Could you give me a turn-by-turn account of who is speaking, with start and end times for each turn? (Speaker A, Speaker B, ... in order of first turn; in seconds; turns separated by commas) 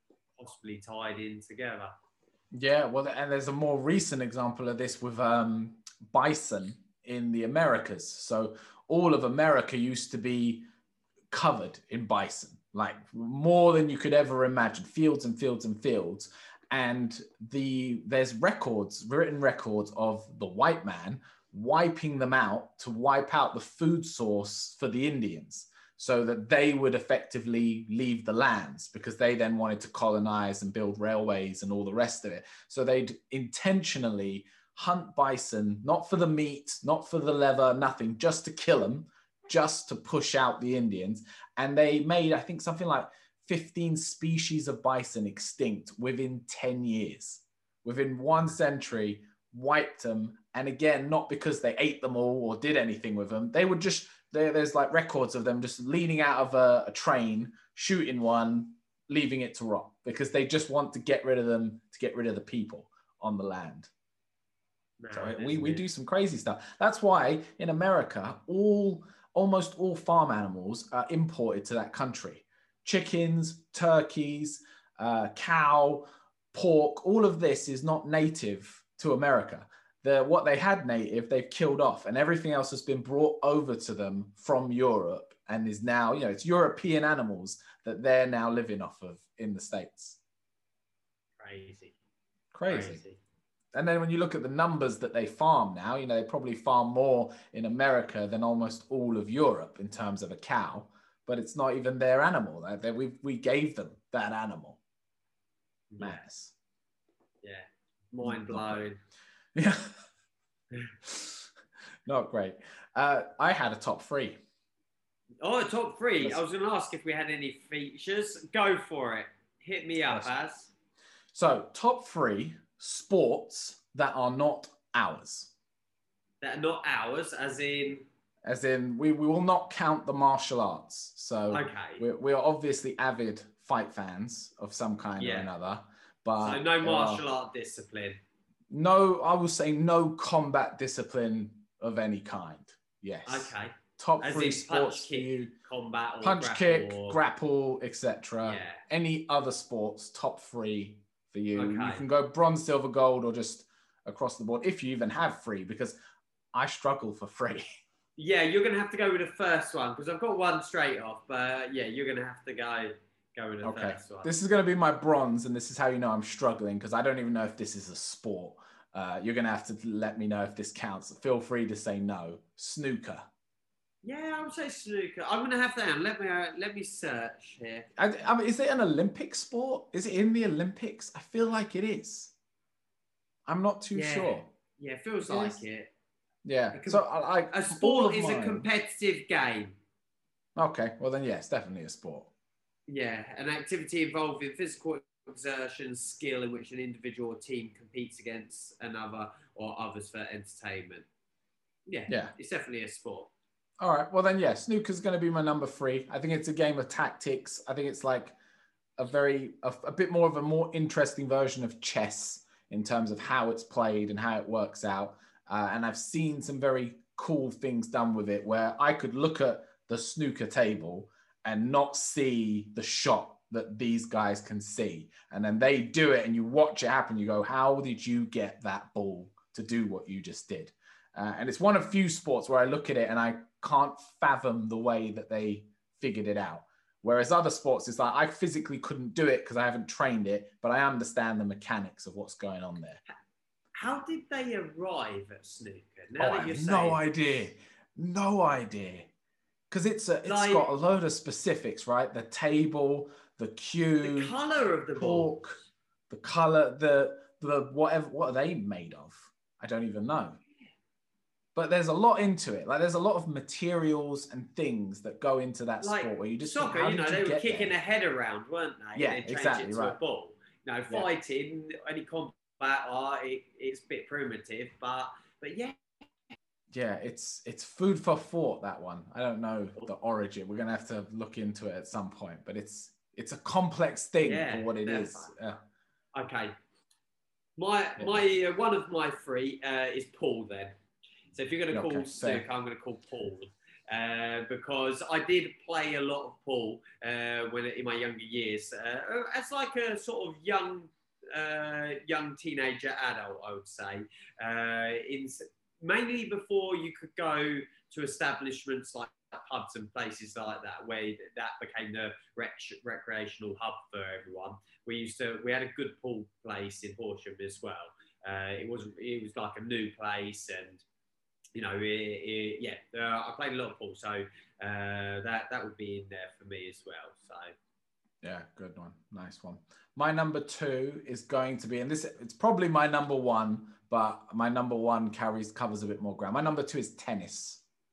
Speaker A: 0.4-1.9, Speaker B: 2.5-10.6, Speaker B: 11.3-63.9, Speaker A: 65.0-65.8, Speaker B: 65.1-90.2, Speaker A: 91.4-91.9, Speaker B: 92.5-93.0, Speaker A: 92.7-93.2, Speaker B: 93.7-104.8, Speaker A: 105.9-106.2, Speaker B: 106.0-106.5, Speaker A: 107.4-109.0, Speaker B: 108.2-108.9, Speaker B: 109.5-109.9, Speaker B: 111.0-111.4, Speaker B: 112.1-114.4, Speaker A: 115.4-120.7, Speaker B: 120.1-120.3, Speaker B: 121.3-125.5, Speaker A: 126.4-128.1, Speaker B: 128.4-137.2, Speaker A: 131.5-132.0, Speaker A: 135.2-135.5, Speaker A: 136.4-138.2, Speaker B: 138.7-145.5, Speaker A: 143.2-147.2, Speaker B: 146.2-156.0, Speaker A: 148.4-148.8, Speaker A: 151.6-152.0, Speaker B: 156.5-157.7, Speaker A: 158.2-164.3, Speaker B: 163.6-173.3, Speaker A: 174.0-177.9, Speaker B: 177.9-182.3, Speaker B: 183.5-184.5, Speaker A: 183.9-185.9, Speaker B: 185.2-185.6, Speaker B: 186.4-188.7, Speaker A: 186.7-189.8, Speaker B: 190.6-192.3, Speaker A: 192.9-201.1, Speaker A: 201.9-203.3, Speaker B: 202.1-202.3, Speaker B: 203.8-208.3, Speaker B: 209.0-243.0, Speaker A: 243.7-247.0, Speaker B: 246.2-249.1, Speaker B: 249.7-254.3, Speaker A: 250.2-250.6, Speaker A: 254.0-255.4, Speaker B: 254.9-255.6, Speaker B: 256.1-260.4, Speaker B: 261.5-267.7, Speaker A: 265.8-275.8, Speaker B: 268.9-270.0, Speaker B: 276.7-285.6, Speaker A: 284.2-285.3, Speaker A: 286.1-286.5, Speaker A: 287.6-290.7, Speaker A: 291.3-320.8, Speaker B: 291.7-292.4, Speaker A: 321.5-327.5, Speaker B: 328.2-337.6